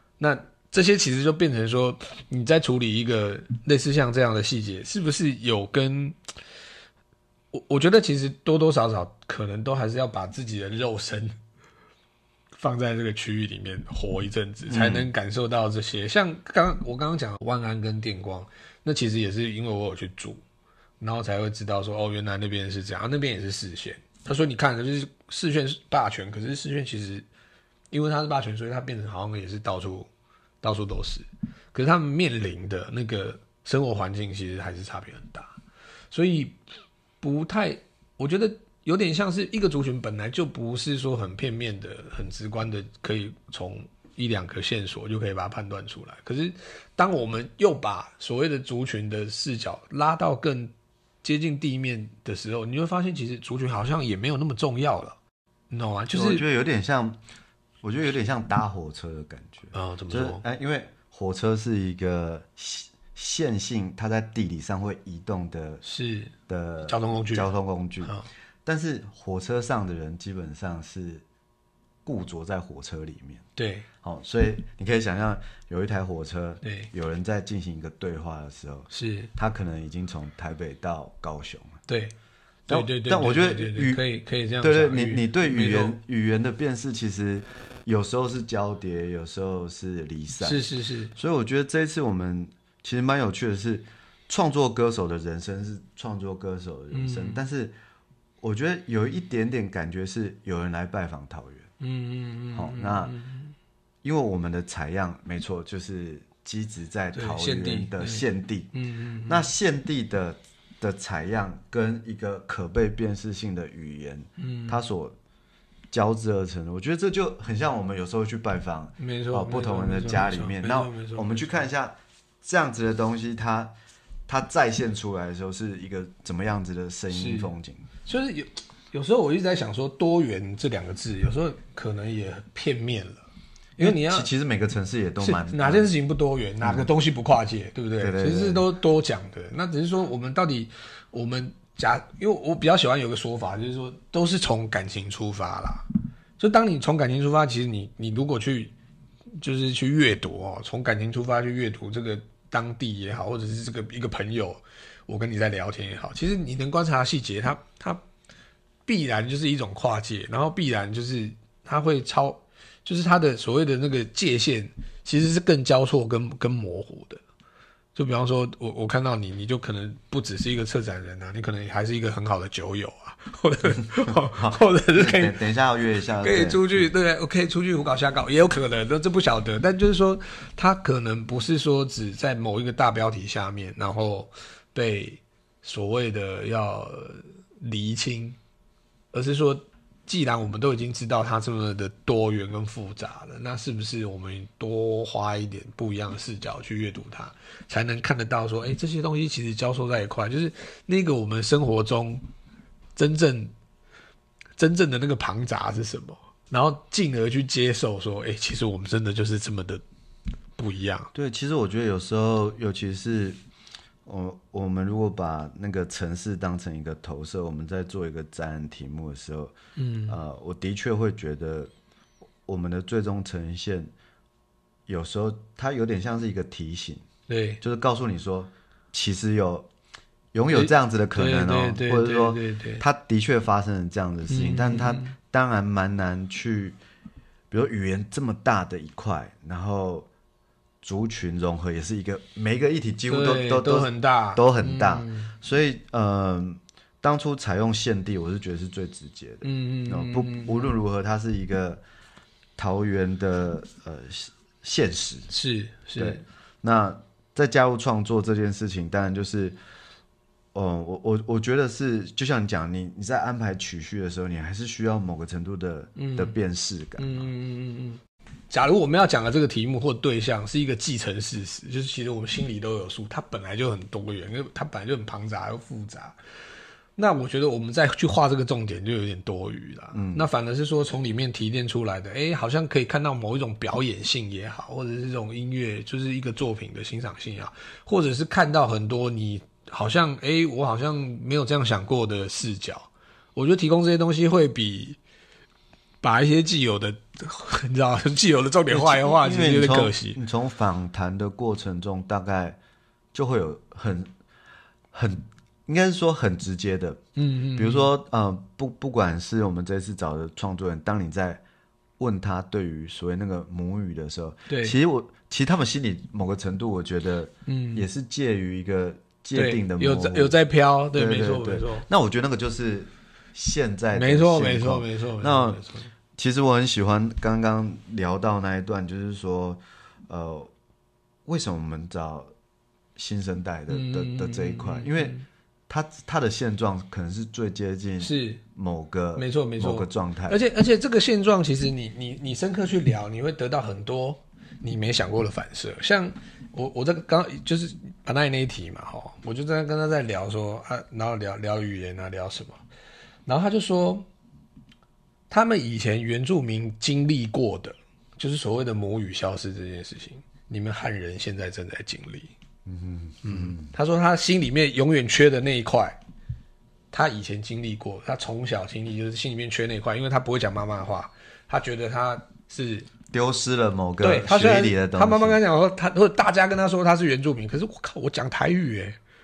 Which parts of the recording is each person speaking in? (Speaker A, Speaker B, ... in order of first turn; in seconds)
Speaker A: 0.2-6.2, 7.5-11.3, 12.6-20.4, 21.0-27.2, 27.9-30.1, 30.6-35.5, 36.1-36.6, 37.2-50.7, 51.2-55.2, 55.7-56.4, 59.7-60.4, 65.8-66.3, 66.8-67.5, 68.0-68.3, 73.5-73.9, 76.6-76.9, 78.9-79.3, 81.9-82.1, 82.7-86.0, 90.4-91.1, 96.9-97.4, 101.8-103.5, 107.1-109.4, 114.4-114.8, 119.0-121.7, 127.1-127.5, 128.1-134.3, 135.2-145.8, 146.4-148.7, 149.4-158.0, 158.9-167.2, 167.9-175.4, 176.2-188.4, 189.1-202.2, 202.9-203.5, 204.6-209.8, 210.6-211.1, 219.8-220.2, 227.3-227.6, 230.5-232.8, 234.3-235.1, 243.1-245.3, 249.4-250.7, 255.3-256.2, 266.0-266.3, 267.0-276.1, 276.9-295.0, 296.0-300.2, 307.1-307.9, 314.5-314.8, 317.5-317.9, 319.3-321.9, 323.9-325.9, 333.7-335.2, 338.0-338.4, 339.1-352.6, 353.2-354.1, 355.3-362.3, 363.2-366.0, 366.9-372.9, 374.0-379.0
Speaker B: 14.7-15.1, 56.1-57.2, 57.8-65.8, 66.5-71.2, 72.0-73.4, 74.0-81.8, 82.7-84.0, 84.6-97.7, 98.4-101.7, 102.5-103.1, 104.0-108.7, 109.2-115.2, 115.9-123.7, 124.3-127.9, 133.8-135.9, 136.6-136.9, 138.0-138.6, 174.3-176.8, 211.1-213.4, 214.1-219.5, 220.1-221.7, 222.4-223.9, 224.9-227.0, 227.6-229.7, 230.3-236.8, 237.5-240.1, 240.8-251.8, 252.6-255.3, 255.9-259.6, 260.5-267.3, 279.9-280.3, 298.7-302.6, 303.1-304.1, 304.9-307.0, 307.5-311.4, 312.0-320.4, 320.9-325.6, 326.1-330.5, 331.2-332.3, 332.9-335.1, 335.7-340.4, 362.6-363.7, 373.1-375.4